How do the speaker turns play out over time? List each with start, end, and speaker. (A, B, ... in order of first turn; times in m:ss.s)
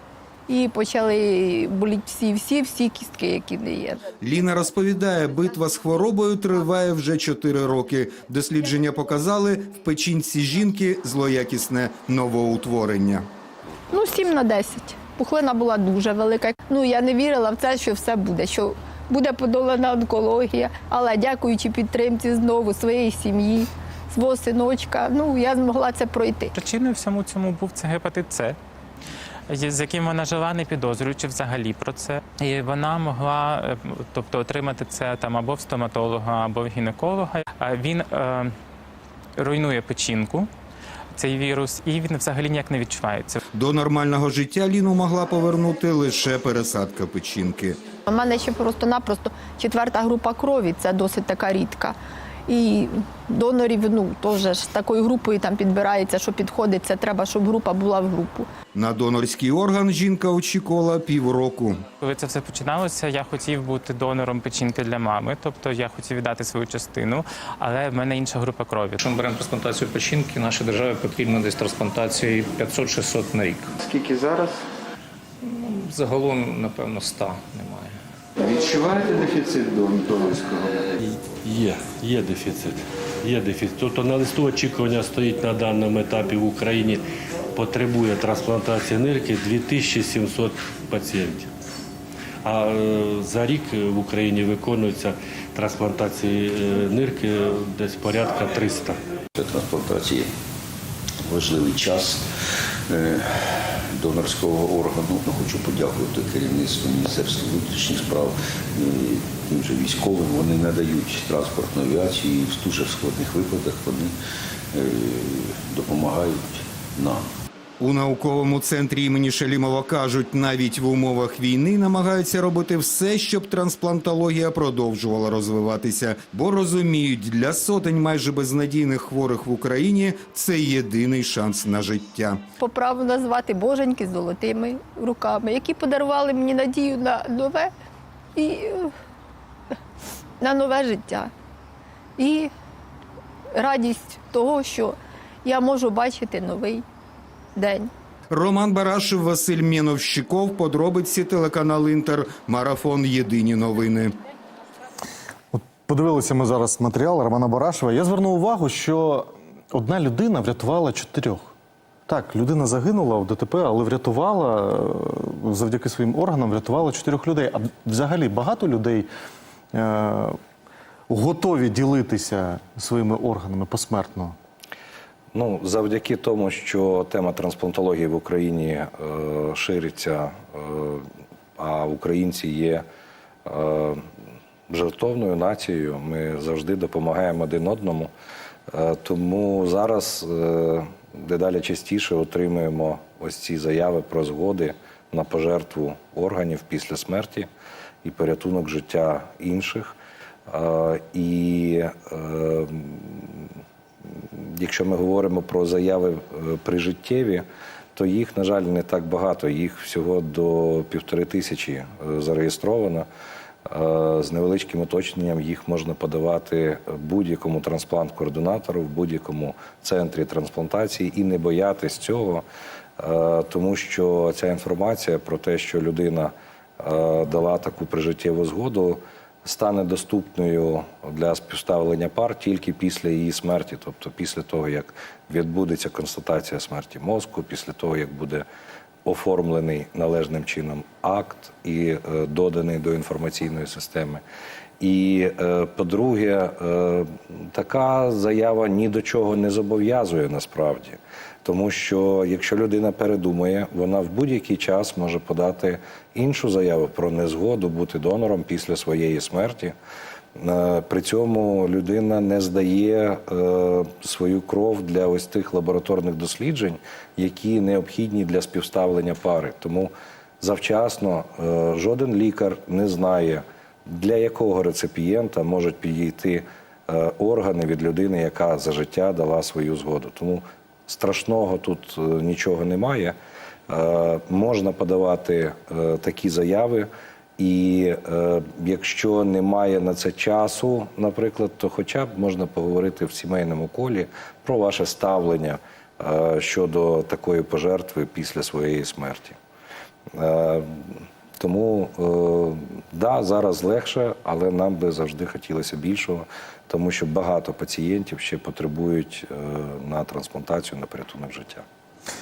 0:00.5-0:04.1 A
0:04.2-0:13.3 B
0:13.9-0:26.5 A
0:26.5-0:28.6 C
0:29.5-0:38.6 C
0:39.4-0:40.5 C
0:41.1-0:43.4 C
0:43.5-0:47.8 B
0:48.1-0:58.5 A
0:58.8-1:01.8 B
1:02.0-1:09.0 C
1:09.0-1:13.7 D
1:13.8-1:14.6 B
1:15.4-1:18.0 D
1:18.4-1:21.0 B
1:21.0-1:27.0 E
1:27.5-1:31.5 E
1:32.4-1:39.0 E
1:39.4-1:40.3 F
1:41.2-1:42.3 F
1:42.9-1:54.2 F
1:54.7-1:57.3 F
1:57.8-2:12.4 B
2:12.6-2:17.7 A
2:18.4-2:18.9 A
2:20.4-2:21.3 A
2:22.2-2:22.5 A
2:23.6-2:26.8 A
2:27.6-2:27.9 A
2:28.3-2:34.2 B
2:35.5-2:41.5 G
2:42.1-2:49.1 G
2:49.7-2:50.4 G
2:51.1-2:54.4 G
2:55.3-3:02.8 H
3:03.4-3:04.1 H
3:04.7-3:08.1 H
3:08.7-3:17.5 H
3:18.0-3:20.0 H
3:20.5-3:33.1 H
3:33.6-3:42.4 H
3:43.0-3:58.4 H
3:59.0-4:04.2 H
4:04.8-4:19.8 H
4:20.4-4:43.2 H
4:43.7-4:59.4 H
5:00.1-5:11.7 H